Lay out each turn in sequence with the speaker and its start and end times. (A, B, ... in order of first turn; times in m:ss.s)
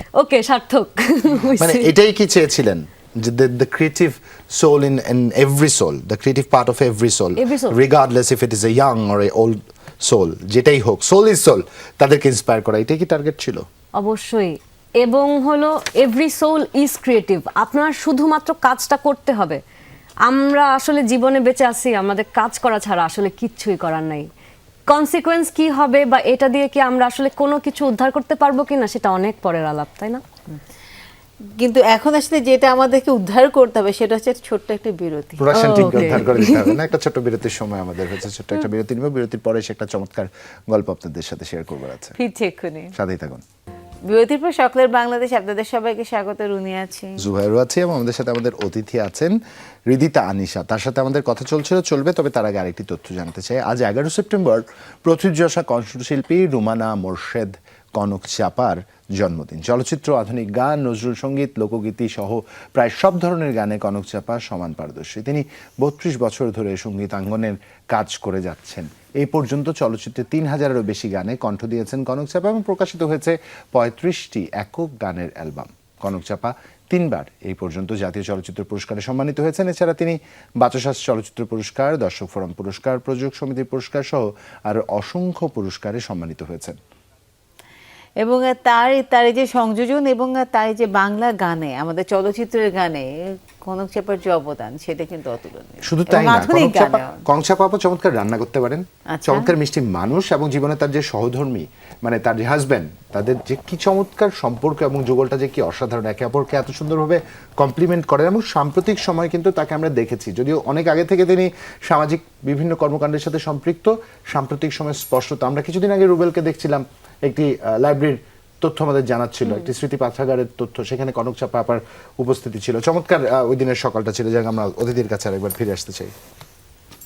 0:00.2-0:01.9 A
0:01.6-0:13.6 B
0:07.4-0:07.8 A
0:14.0-0:19.6 A
0:20.3-0:24.3 A
0:24.9-0:30.2 A
0:31.6-0:36.2 C
0:35.4-0:42.2 B
0:35.5-0:36.7 A
0:42.2-0:42.9 C
0:43.0-0:43.4 B
0:44.1-0:47.2 C
0:47.2-0:49.3 B
0:49.9-1:26.8 B
1:28.2-1:33.1 C
1:33.6-1:37.2 C
1:35.8-2:06.1 B
1:39.1-1:39.5 C